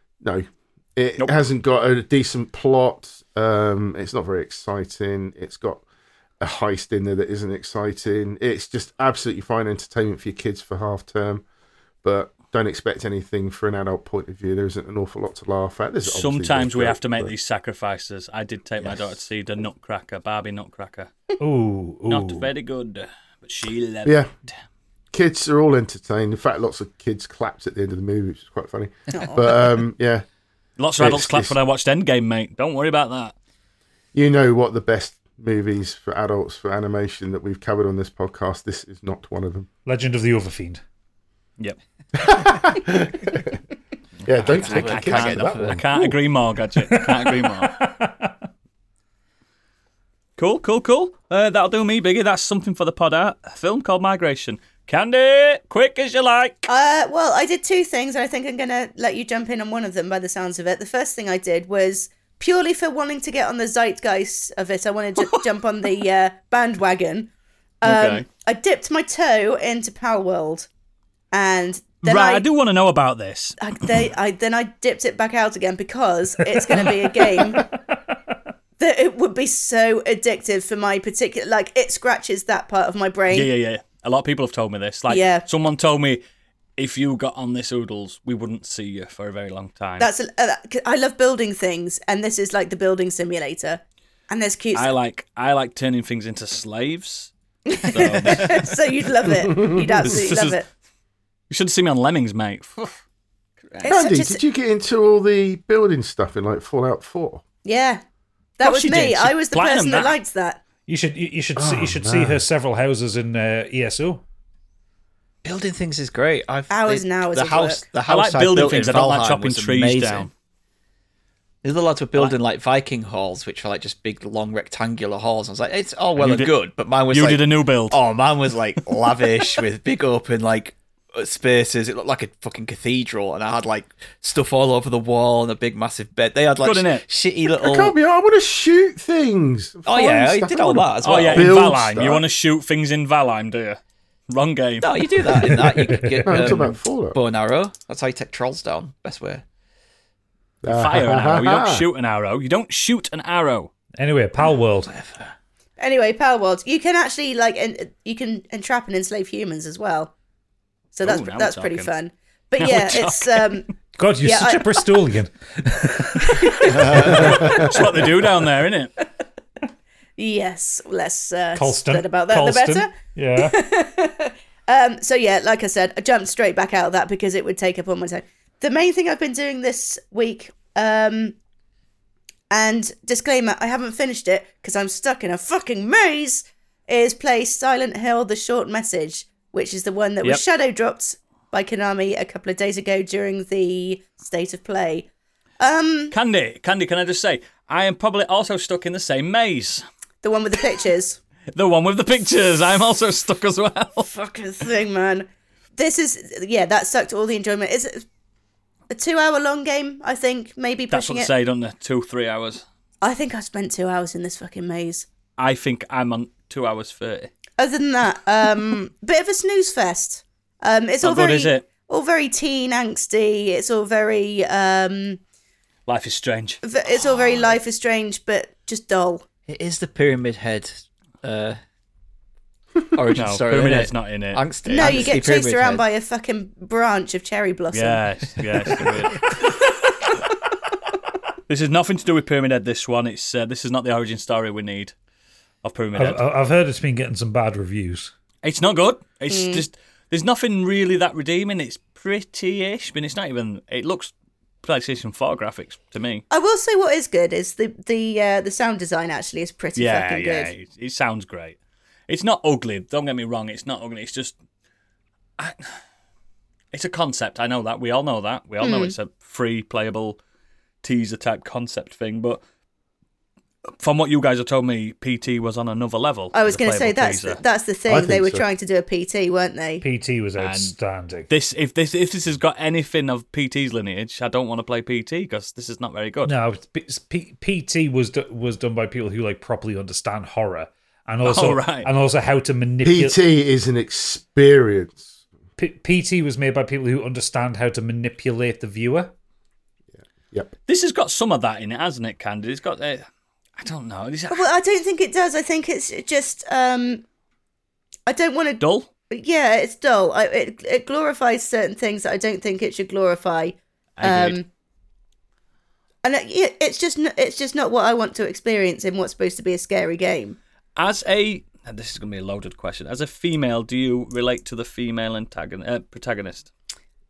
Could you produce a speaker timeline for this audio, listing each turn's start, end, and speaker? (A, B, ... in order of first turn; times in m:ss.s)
0:00.2-0:05.8 A
0:06.4-0:11.4 A
0:12.0-0:17.3 A
0:16.0-0:21.1 B
0:21.4-0:22.5 C
0:22.1-0:24.6 B
0:24.0-0:24.3 A
0:25.1-0:30.2 A
0:29.1-0:29.4 D
0:30.8-0:33.4 B
0:31.0-0:31.5 A
0:34.1-0:39.7 A
0:39.9-0:40.8 C
0:42.2-0:43.6 A
0:44.3-0:45.9 A
0:44.3-0:45.9 E
0:44.4-0:47.8 B
0:46.8-0:48.4 C
0:50.4-0:56.7 B
0:56.7-1:07.3 D
1:05.2-1:05.5 B
1:07.8-1:08.3 B
1:07.8-1:10.7 D
1:11.3-1:12.5 D
1:12.0-1:13.6 B
1:13.6-1:17.7 D
1:17.2-1:18.2 C
1:18.8-1:23.5 D
1:23.3-1:26.2 B
1:25.1-1:25.4 D
1:26.8-1:30.1 B
1:30.0-1:34.9 D
1:34.7-1:37.3 B
1:37.7-1:40.7 D
1:37.8-1:38.7 B
1:39.3-1:40.2 A
1:40.0-1:40.6 B
1:41.5-1:43.0 B
1:43.6-1:43.9 B
1:43.8-1:44.4 D
1:43.9-1:47.4 A
1:47.6-1:48.0 D
1:48.6-1:50.6 D
1:48.6-1:50.2 B
1:50.9-1:54.2 C
1:51.6-1:52.4 A
1:55.4-2:00.3 E
1:56.7-1:57.8 D
1:58.1-2:00.3 B
2:01.6-2:17.9 E
2:06.2-2:06.5 B
2:07.1-2:08.0 B
2:16.6-2:17.0 B
2:17.6-2:22.2 A
2:19.9-2:21.6 E
2:21.0-2:25.3 B
2:24.8-2:29.4 E
2:25.4-2:26.6 C
2:26.3-2:27.2 A
2:30.6-2:31.9 A
2:30.7-2:33.7 B
2:34.0-2:34.9 C
2:34.9-2:35.3 E
2:35.8-2:40.1 D
2:40.9-2:44.9 D
2:41.0-2:41.9 B
2:42.6-2:43.7 B
2:44.0-2:47.6 C
2:46.2-2:47.8 D
2:46.8-2:48.9 B
2:47.4-2:47.7 A
2:50.2-3:01.4 D
2:51.6-2:53.6 C
3:02.5-3:15.1 D
3:15.6-3:16.2 D
3:16.1-3:19.8 B
3:20.2-3:21.2 D
3:21.5-3:24.1 B
3:24.1-3:28.1 D
3:28.9-3:31.3 D
3:30.9-3:32.6 B
3:33.0-3:35.1 D
3:35.4-3:37.3 B
3:37.6-3:45.2 D
3:41.0-3:41.6 B
3:45.9-3:46.6 B
3:46.6-3:49.2 D
3:49.5-3:51.6 E
3:52.9-3:55.8 E
3:53.2-3:55.1 B
3:54.7-3:58.0 D
3:57.7-3:59.3 B
3:59.4-3:59.7 D
4:01.5-4:04.9 B
4:05.6-4:06.2 B
4:06.0-4:08.1 C
4:08.4-4:16.2 B
4:09.3-4:09.6 D
4:16.3-4:20.5 D
4:19.8-4:24.4 B
4:25.4-4:25.8 B
4:26.7-4:30.2 B
4:28.6-4:29.0 D
4:30.8-4:32.4 B
4:33.8-4:37.4 B
4:36.3-4:39.8 D
4:37.9-4:38.4 A
4:39.8-4:41.3 C
4:40.4-4:40.8 B
4:41.3-4:46.3 B
4:46.2-4:53.2 C
4:51.2-4:51.9 B
4:52.8-4:55.1 A
4:55.6-4:59.1 C
5:00.0-5:00.5 A
5:00.7-5:03.1 B
5:03.6-5:04.5 B
5:04.3-5:07.0 D
5:08.1-5:14.5 D
5:08.6-5:08.9 B
5:14.0-5:14.4 B
5:16.0-5:20.4 D
5:20.8-5:26.5 B